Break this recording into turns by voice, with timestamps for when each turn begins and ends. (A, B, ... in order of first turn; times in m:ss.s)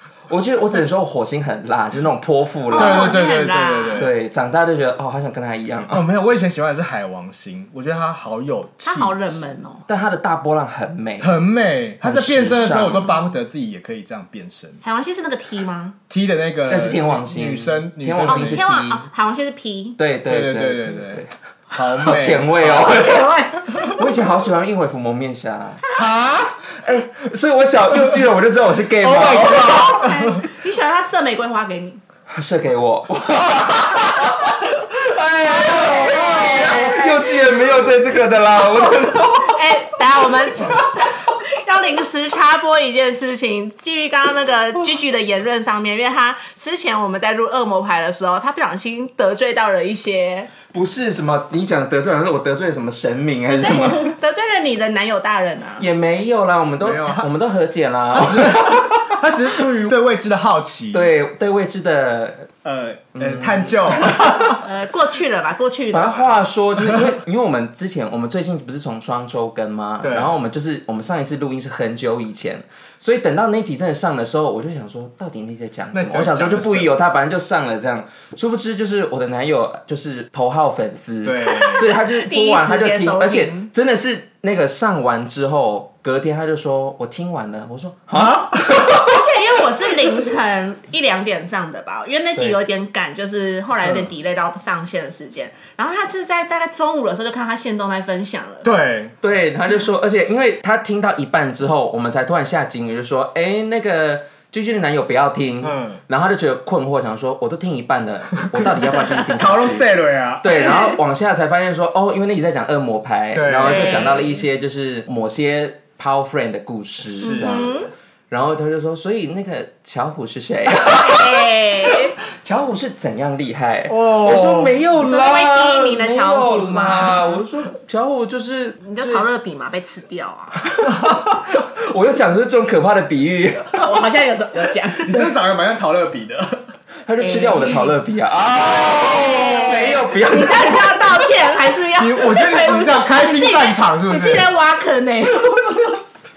0:00.3-0:03.2 A
0:02.7-0:04.0 B
0:02.7-0:04.1 C
0:04.0-0:06.0 A
0:05.9-0:09.4 C
0:08.8-0:09.8 B
0:09.9-0:11.4 A
0:11.2-0:14.8 C
0:12.0-0:13.2 A
0:14.8-0:16.0 B
0:16.1-0:18.7 C
0:16.7-0:19.0 A
0:18.3-0:20.0 B
0:20.0-0:21.3 A
0:20.2-0:23.0 C
0:22.0-0:25.8 A
0:22.7-0:24.1 B
0:26.0-0:26.6 C
0:26.7-0:30.0 A
0:29.0-0:30.5 C
0:29.3-0:32.0 B
0:32.3-0:39.6 A
0:35.8-0:37.1 B
0:39.4-0:50.5 B
0:50.7-0:54.2 A
0:53.5-0:55.8 B
0:55.8-0:59.2 A
0:56.8-0:57.3 C
0:58.1-1:01.1 C
1:00.9-1:02.5 A
1:02.6-1:04.6 C
1:03.2-1:04.4 A
1:04.5-1:06.3 B
1:05.9-1:29.2 A
1:10.0-1:10.3 C
1:15.9-1:16.9 C
1:21.2-1:21.8 C
1:21.4-1:23.7 B
1:28.1-1:28.9 C
1:28.9-1:38.7 B
1:38.6-1:39.1 C
1:39.2-1:49.9 A
1:45.6-1:46.0 C
1:48.5-1:50.6 C
1:50.4-2:09.2 A
1:53.3-1:54.0 C
1:53.6-1:54.3 B
1:57.1-1:57.7 C
1:57.2-1:57.9 B
2:00.8-2:02.1 B
2:03.9-2:04.8 C
2:05.0-2:07.4 B
2:08.8-2:10.6 B
2:10.6-2:13.8 A
2:10.8-2:11.2 C
2:13.8-2:15.3 B
2:15.0-2:16.7 C
2:17.0-2:21.3 A
2:17.2-2:17.9 B
2:18.7-2:19.7 C
2:18.8-2:25.9 B
2:21.9-2:24.5 C